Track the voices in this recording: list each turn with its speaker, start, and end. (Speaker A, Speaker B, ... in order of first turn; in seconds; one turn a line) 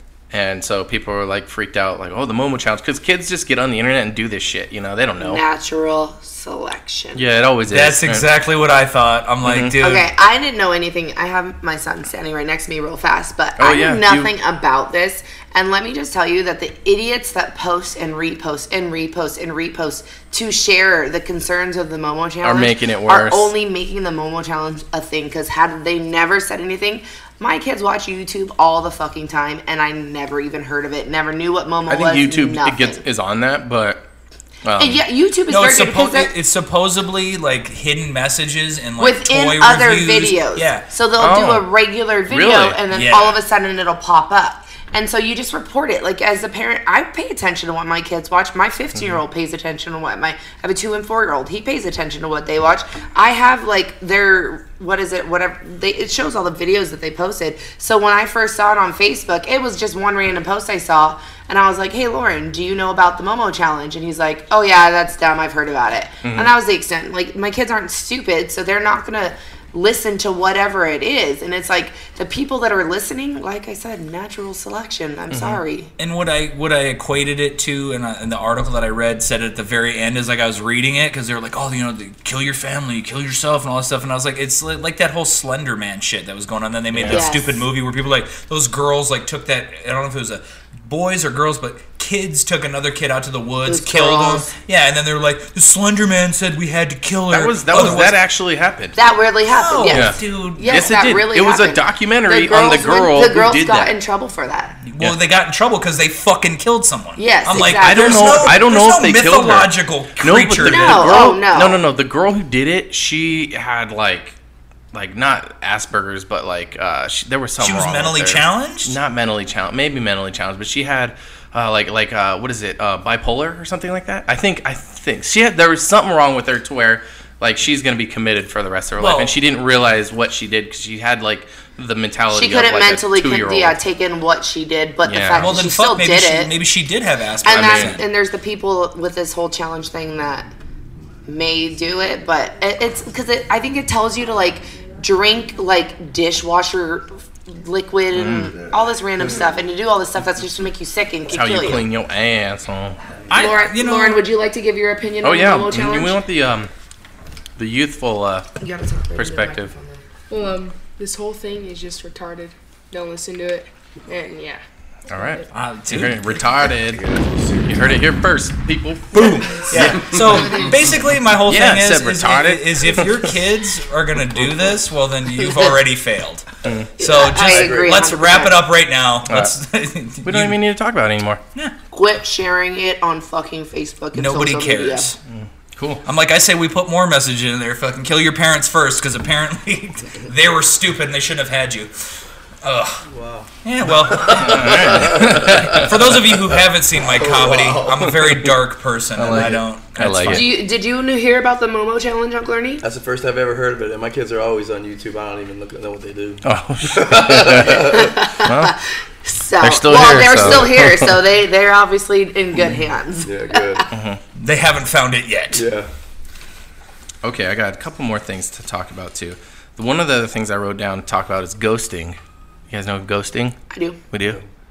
Speaker A: 0.3-5.4
Speaker B: 5.2-7.2
Speaker A: 7.1-8.3
Speaker C: 7.7-10.1
Speaker A: 9.4-9.7
Speaker B: 9.8-33.0
Speaker A: 13.6-14.3
Speaker A: 22.4-23.5
Speaker A: 31.9-34.1
Speaker A: 34.6-35.0
Speaker B: 34.8-36.3
Speaker C: 35.5-40.9
Speaker B: 39.0-75.9
Speaker A: 41.2-41.7
Speaker A: 42.3-42.8
Speaker C: 42.9-43.4
Speaker A: 66.2-66.5
Speaker A: 75.3-75.6
Speaker C: 76.0-98.2
Speaker A: 86.9-87.3
Speaker B: 87.1-87.6
Speaker B: 93.7-94.5
Speaker A: 97.3-99.0
Speaker B: 99.0-104.8
Speaker C: 99.5-100.9
Speaker A: 99.9-103.9
Speaker C: 104.8-111.2
Speaker B: 107.2-108.5
Speaker A: 107.5-114.3
Speaker B: 110.6-111.8
Speaker A: 114.9-133.8
Speaker C: 117.6-118.9
Speaker C: 129.0-129.3
Speaker B: 132.3-136.5
Speaker A: 135.0-135.6
Speaker C: 135.4-138.0
Speaker B: 137.4-140.5
Speaker A: 137.5-138.0
Speaker B: 141.2-151.9
Speaker A: 148.1-148.6
Speaker A: 151.3-153.0
Speaker C: 153.3-154.2
Speaker B: 153.3-156.2
Speaker A: 155.2-156.7
Speaker A: 157.6-158.5
Speaker B: 158.6-160.0
Speaker A: 159.1-159.7
Speaker D: 160.3-164.6
Speaker A: 165.1-170.2
Speaker D: 165.2-165.5
Speaker C: 165.5-166.3
Speaker E: 166.8-168.0
Speaker C: 169.1-176.5
Speaker E: 169.8-170.2
Speaker A: 171.4-173.3
Speaker B: 175.4-175.8
Speaker A: 176.6-176.9
Speaker B: 177.0-178.6
Speaker C: 177.0-180.6
Speaker E: 177.4-178.0
Speaker A: 179.3-179.5
Speaker A: 180.2-181.4
Speaker B: 181.9-185.1
Speaker C: 184.1-185.2
Speaker A: 185.3-186.0
Speaker C: 186.0-191.9
Speaker C: 192.6-193.0
Speaker E: 193.1-195.9
Speaker C: 193.6-200.5
Speaker A: 194.3-196.0
Speaker E: 197.0-198.1
Speaker A: 199.2-200.5
Speaker E: 199.3-199.6
Speaker B: 200.3-202.8
Speaker E: 202.8-208.1
Speaker A: 206.4-208.7
Speaker B: 207.8-213.8
Speaker A: 209.6-211.2
Speaker E: 213.2-213.8
Speaker A: 213.9-214.2
Speaker C: 214.4-215.7
Speaker E: 215.5-215.9
Speaker A: 217.2-222.2
Speaker A: 222.7-223.6
Speaker B: 223.7-224.0
Speaker A: 224.1-224.4